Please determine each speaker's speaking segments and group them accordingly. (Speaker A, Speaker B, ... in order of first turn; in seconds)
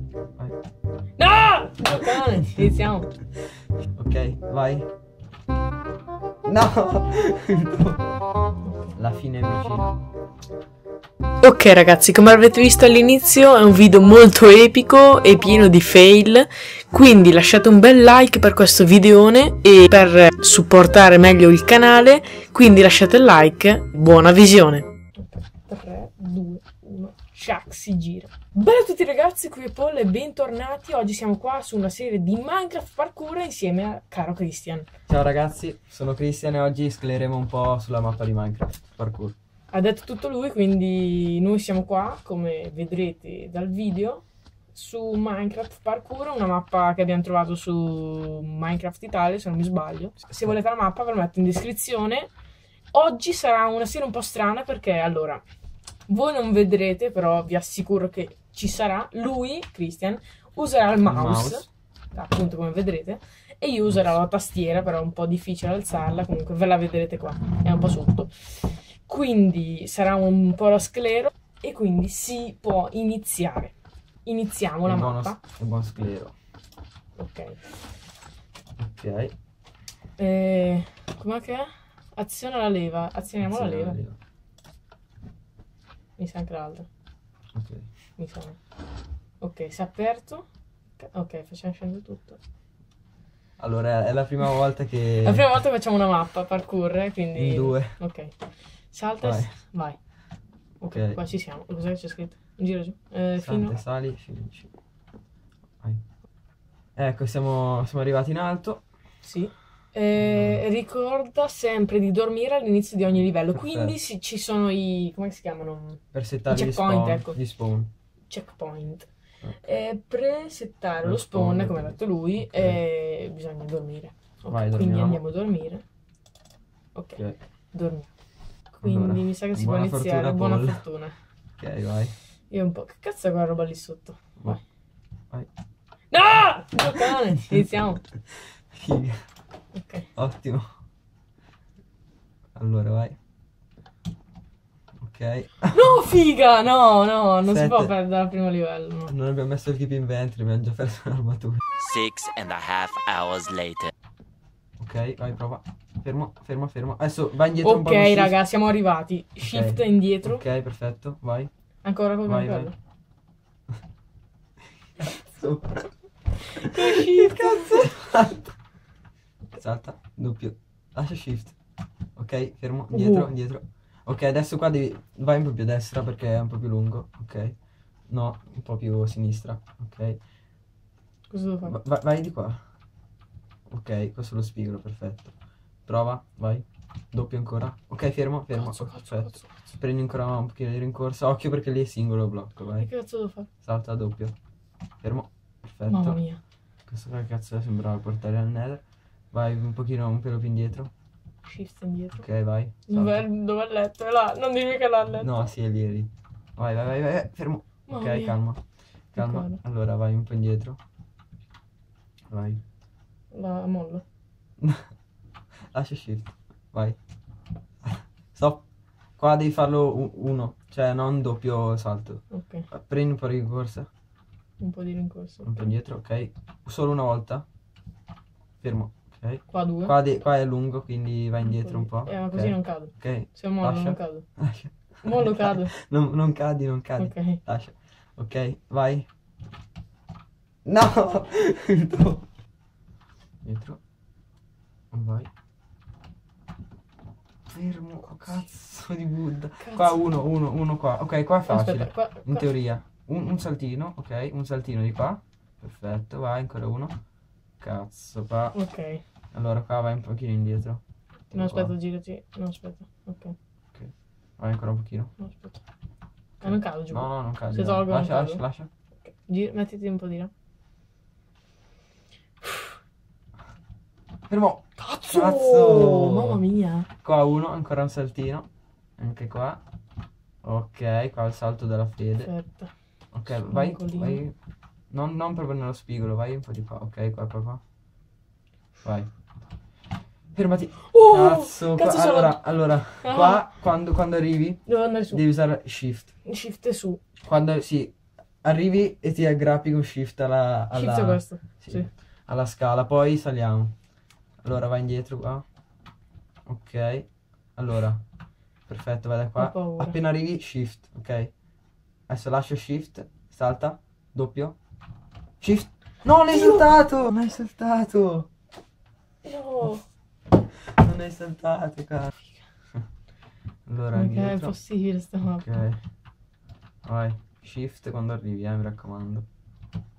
Speaker A: 1.2-3.1, 8.6-9.0, 11.4-34.9, 39.7-52.3, 52.9-55.4, 56.1-73.7, 74.2-75.4, 77.2-77.6, 80.2-84.0, 86.2-86.9, 88.2-88.6, 89.4-90.5, 91.0-92.4, 95.2-98.3, 98.9-100.0, 100.8-103.8, 109.2-117.4, 118.3-119.1, 119.6-125.8, 126.9-127.2, 127.7-128.1, 128.8-131.2, 132.5-134.6, 136.1-138.0, 139.7-140.1, 145.7-149.1, 157.6-160.4, 161.8-162.7, 166.4-167.9, 172.9-173.3, 181.3-181.8, 188.5-189.6, 192.8-193.5, 195.9-196.4, 201.4-202.2, 202.9-205.4, 207.9-208.4, 209.2-209.6, 213.3-214.0, 222.3-222.7, 224.6-225.7, 229.5-229.9, 231.4-234.3, 235.0-235.7, 237.0-237.4, 249.6-250.0, 251.5-252.5, 258.5-259.0, 261.3-263.4, 265.2-265.6, 266.4-268.4, 269.0-270.3, 272.4-272.7, 274.8-276.9, 282.2-282.7, 283.3-284.2, 290.9-292.4, 293.0-293.5, 294.7-295.2, 296.2-297.0, 300.7-301.9, 309.4-310.0, 319.2-319.8, 323.9-325.6
Speaker B: 4.0-4.9, 6.5-8.1, 9.0-10.0, 35.1-39.4, 61.0-61.6, 74.8-76.3, 78.8-79.3, 83.4-84.2, 87.5-87.9, 93.6-95.5, 97.4-98.0, 99.2-99.6, 100.9-101.2, 103.4-104.7, 107.0-108.9, 110.2-110.7, 113.2-114.0, 116.1-117.9, 121.0-122.8, 124.5-125.2, 128.7-130.8, 131.6-132.2, 137.1-137.6, 138.7-139.2, 140.2-140.7, 142.6-143.2, 145.0-146.0, 147.4-147.9, 149.1-151.6, 154.8-158.4, 159.4-161.5, 162.2-162.7, 165.0-165.9, 166.6-168.6, 169.5-171.6, 172.2-177.6, 178.1-180.2, 181.6-182.6, 183.7-185.3, 185.9-192.9, 193.6-194.3, 195.0-196.2, 196.9-200.9, 202.2-203.3, 205.2-208.6, 209.1-210.8, 212.3-212.6, 214.6-214.9, 215.7-217.0, 217.8-223.9, 225.4-227.5, 228.6-239.1, 240.7-242.3, 243.4-243.8, 244.9-245.3, 247.5-257.0, 257.6-258.6, 259.3-261.8, 263.7-265.1, 266.4-268.7, 274.3-276.4, 277.0-279.6, 280.4-282.3, 283.1-284.4, 284.9-287.6, 288.8-289.1, 290.3-296.1, 297.2-303.8, 304.4-305.4, 306.5-308.0, 308.7-311.3, 312.1-314.6, 315.4-318.3, 320.7-322.1, 323.7-324.6, 325.2-325.8, 326.9-329.3
Speaker C: 151.8-153.9